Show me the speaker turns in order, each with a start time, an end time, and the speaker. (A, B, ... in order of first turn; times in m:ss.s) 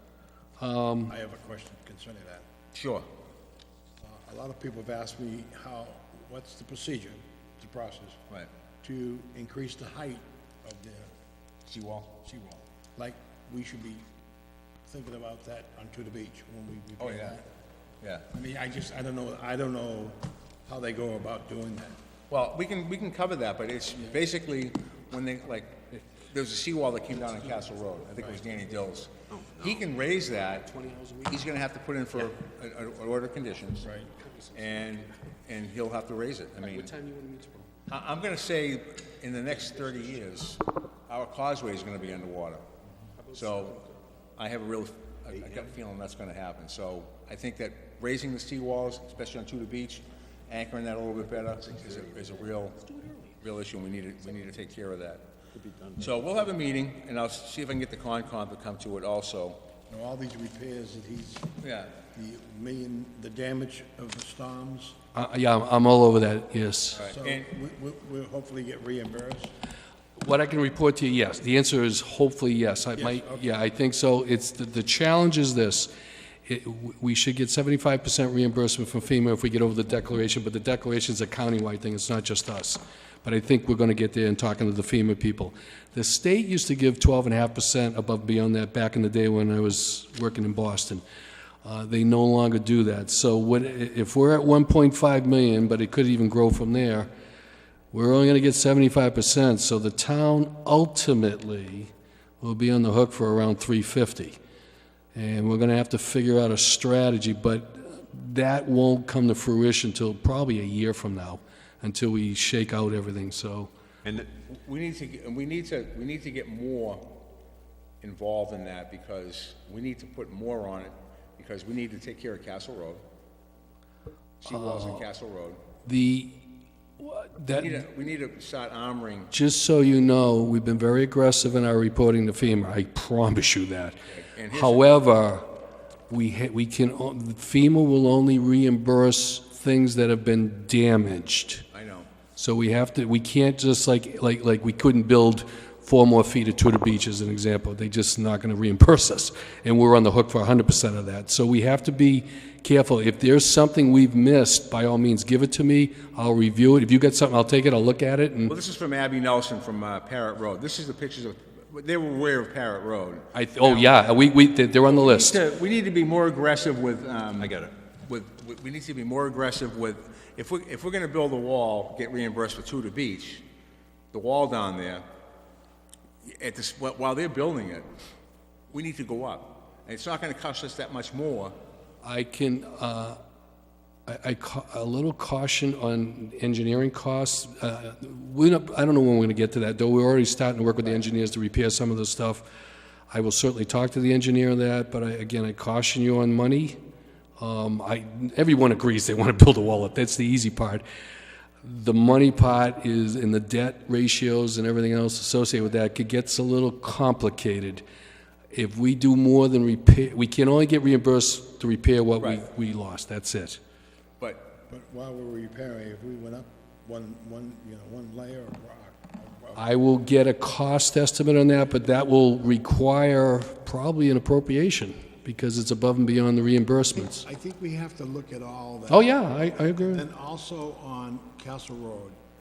0:00.6-0:01.2 A
0:01.2-0:02.4 B
0:02.7-0:03.1 C
0:04.1-0:08.2 B
0:08.8-0:11.1 B
0:11.7-0:12.2 C
0:12.3-0:14.0 B
0:14.9-0:17.4 B
0:17.0-0:17.4 C
0:18.0-0:18.3 C
0:18.3-0:22.0 B
0:22.3-0:30.7 C
0:30.4-0:31.5 A
0:31.3-0:33.9 C
0:33.8-0:35.1 A
0:34.5-0:36.9 C
0:36.6-0:37.7 A
0:37.9-0:42.6 C
0:43.3-0:43.8 C
0:44.4-0:55.3 C
0:55.6-0:55.9 B
0:55.9-0:59.6 C
0:59.9-1:01.5 B
1:01.6-1:02.0 C
1:02.1-1:05.0 B
1:05.1-1:07.1 A
1:06.9-1:07.5 C
1:07.2-1:09.5 B
1:10.2-1:15.9 A
1:13.0-1:13.4 B
1:16.5-1:31.0 A
1:31.6-1:37.1 A
1:37.9-1:44.4 A
1:45.1-1:53.7 A
1:54.1-1:57.2 C
1:58.0-2:03.0 C
2:04.4-2:05.6 C
2:04.5-2:05.1 A
2:05.9-2:06.4 A
2:07.0-2:07.8 A
2:07.5-2:09.3 C
2:09.3-2:14.0 A
2:14.1-2:15.0 C
2:14.5-2:15.4 A
2:16.1-2:21.6 A
2:21.7-2:22.1 C
2:22.4-2:38.6 A
2:38.5-2:44.0 C
2:43.3-2:45.4 A
2:44.8-2:53.4 C
2:54.1-2:55.0 C
2:56.2-2:57.9 C
2:58.7-3:01.5 C
3:02.0-3:03.2 A
3:04.1-3:12.5 A
3:13.1-3:16.8 A
3:17.4-3:20.8 A
3:21.6-3:27.8 A
3:28.5-3:33.6 A
3:34.2-3:34.5 C
3:34.7-3:39.6 B
3:39.6-3:47.2 A
3:47.0-3:49.0 B
3:48.9-3:50.0 A
3:49.9-3:52.2 B